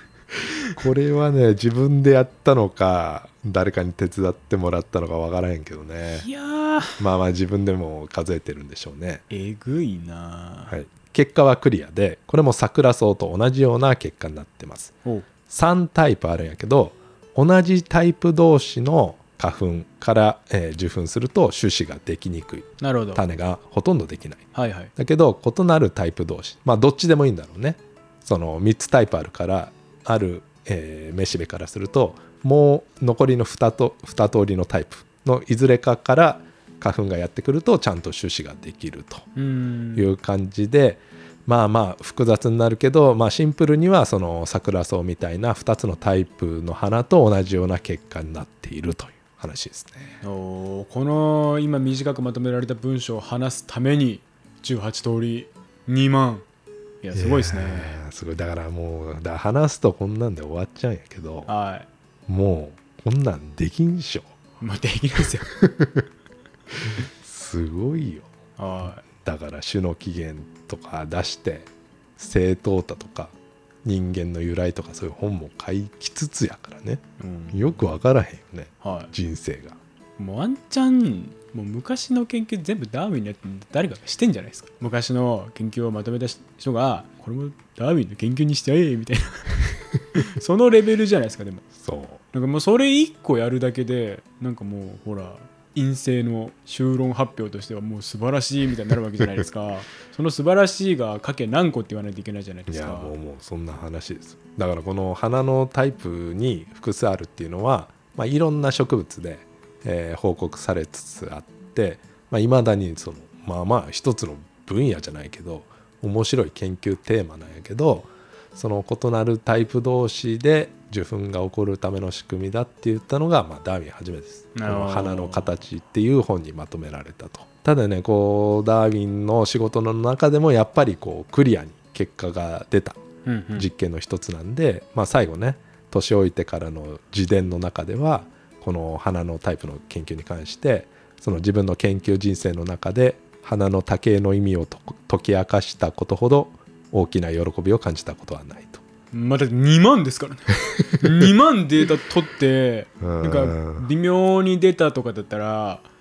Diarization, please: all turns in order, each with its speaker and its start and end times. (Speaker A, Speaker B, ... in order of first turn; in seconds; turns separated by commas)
Speaker A: 0.8-6.2, Speaker B: 6.1-7.0, Speaker A: 7.0-9.2, Speaker B: 9.3-10.8, Speaker A: 10.7-14.9, Speaker A: 15.5-39.3, Speaker B: 22.8-23.2, Speaker B: 24.5-24.9, Speaker B: 39.4-40.1, Speaker A: 40.0-50.2, Speaker B: 50.2-56.4, Speaker B: 57.0-58.0, Speaker A: 57.1-61.5, Speaker B: 61.5-61.9, Speaker A: 62.3-64.3, Speaker B: 64.6-65.5, Speaker A: 65.5-66.0, Speaker A: 66.8-68.3, Speaker B: 68.6-69.0, Speaker A: 69.0-79.8, Speaker B: 77.2-77.7, Speaker B: 78.8-79.1, Speaker B: 80.2-91.7, Speaker A: 91.8-92.2, Speaker B: 92.3-103.1, Speaker A: 102.7-133.0, Speaker B: 124.5-125.5, Speaker B: 133.2-133.7, Speaker A: 133.5-148.8, Speaker B: 149.1-155.8, Speaker A: 153.0-153.9